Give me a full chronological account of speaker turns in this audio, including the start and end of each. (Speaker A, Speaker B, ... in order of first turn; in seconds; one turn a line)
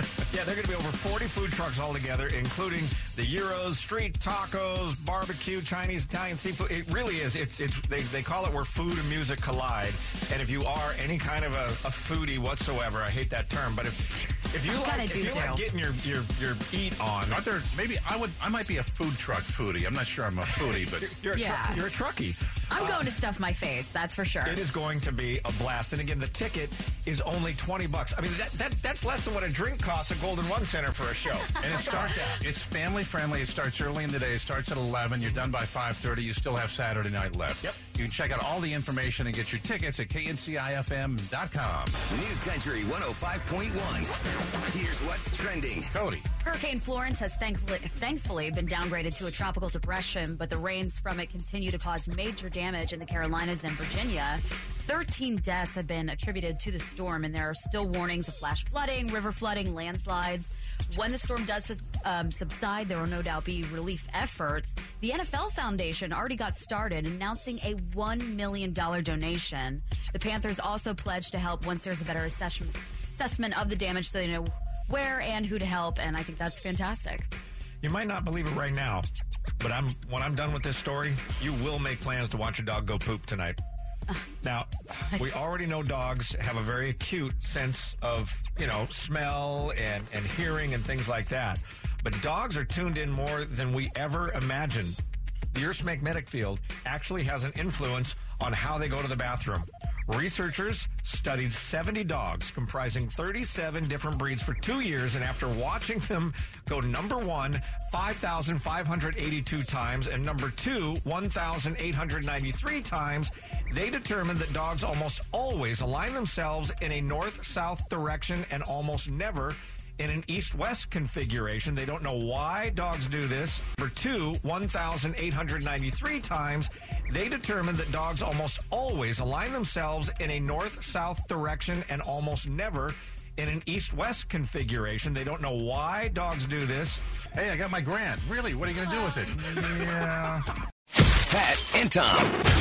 Speaker A: 0.3-17.4
Speaker B: 14.7-15.6
Speaker C: 17.3-21.2
Speaker A: 20.6-23.1
Speaker B: 21.3-21.9
Speaker B: 22.7-24.6
Speaker A: 24.4-32.4
Speaker C: 31.6-42.0
Speaker D: 42.1-44.1
Speaker D: 44.7-45.9
Speaker C: 45.9-46.3
Speaker B: 46.4-77.3
Speaker A: 77.8-79.1
Speaker A: 79.6-83.6
Speaker A: 84.4-95.0
Speaker B: 85.1-85.4
Speaker A: 95.5-137.0
Speaker C: 137.3-140.4
Speaker D: 141.3-142.3